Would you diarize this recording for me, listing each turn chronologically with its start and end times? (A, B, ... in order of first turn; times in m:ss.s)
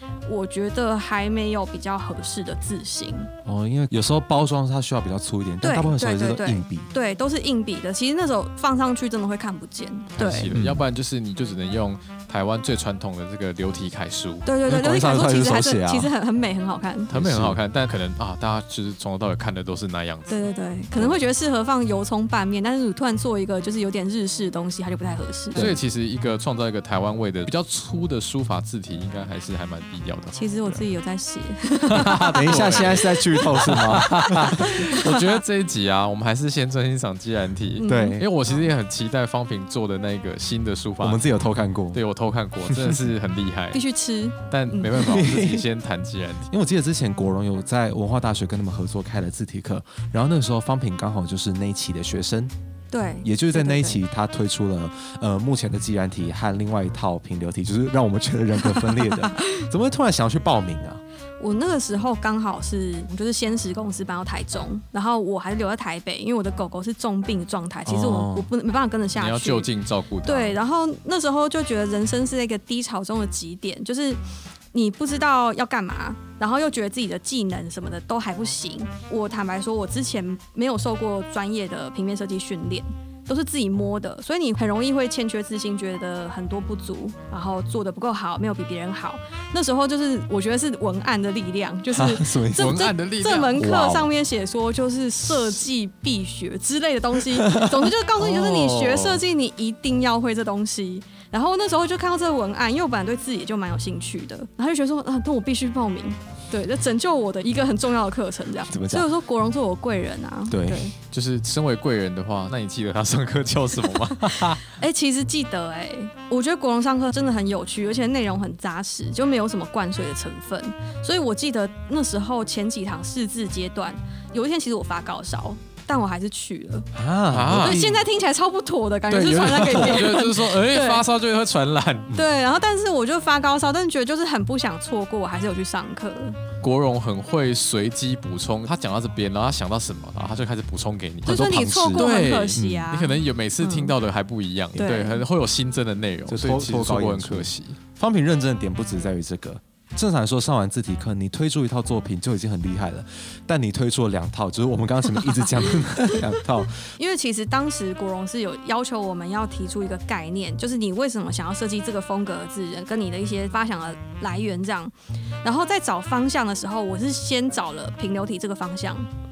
0:00.3-0:03.3 A
0:03.4-0:06.9 B
0:05.6-0:10.5 A
0:10.2-0:14.5 C
0:10.5-0:10.8 B
0:14.4-0:17.1 A
0:14.7-0:16.1 B
0:17.1-0:20.4 C
0:17.1-0:17.6 B
0:20.3-0:25.7 A
0:25.5-0:25.8 B
0:25.6-0:30.8 C
0:30.3-0:33.8 A
0:31.9-0:41.3 C
0:32.2-0:34.8 B
0:34.5-0:35.4 A
0:37.8-0:38.6 A
0:37.8-0:38.3 B
0:41.0-0:42.0 B
0:41.9-0:43.8 C
0:42.7-0:43.0 B
0:43.7-0:45.0 A
0:44.5-0:46.5 C
0:45.0-0:45.7 B
0:46.5-0:52.5 B
0:52.9-0:54.0 A
0:53.2-1:01.0 B
1:01.4-1:09.7 A
1:07.9-1:08.5 B
1:09.2-1:10.6 C
1:10.2-1:14.2 A
1:14.7-1:50.9 A
1:31.9-1:32.9 B
1:32.6-1:33.6 C
1:33.6-1:34.1 B
1:37.3-1:37.9 B
1:38.2-1:39.2 C
1:48.7-1:49.1 B
1:50.5-1:50.9 B
1:51.1-1:54.7 C
1:54.3-2:06.9 A
2:06.9-2:08.0 B
2:07.3-2:07.9 C
2:07.5-2:11.0 A
2:09.1-2:12.1 C
2:12.1-2:16.4 A
2:16.6-2:27.8 C
2:21.2-2:22.9 B
2:21.2-2:23.9 A
2:24.8-2:25.2 A
2:26.3-2:36.9 B
2:37.0-2:49.1 A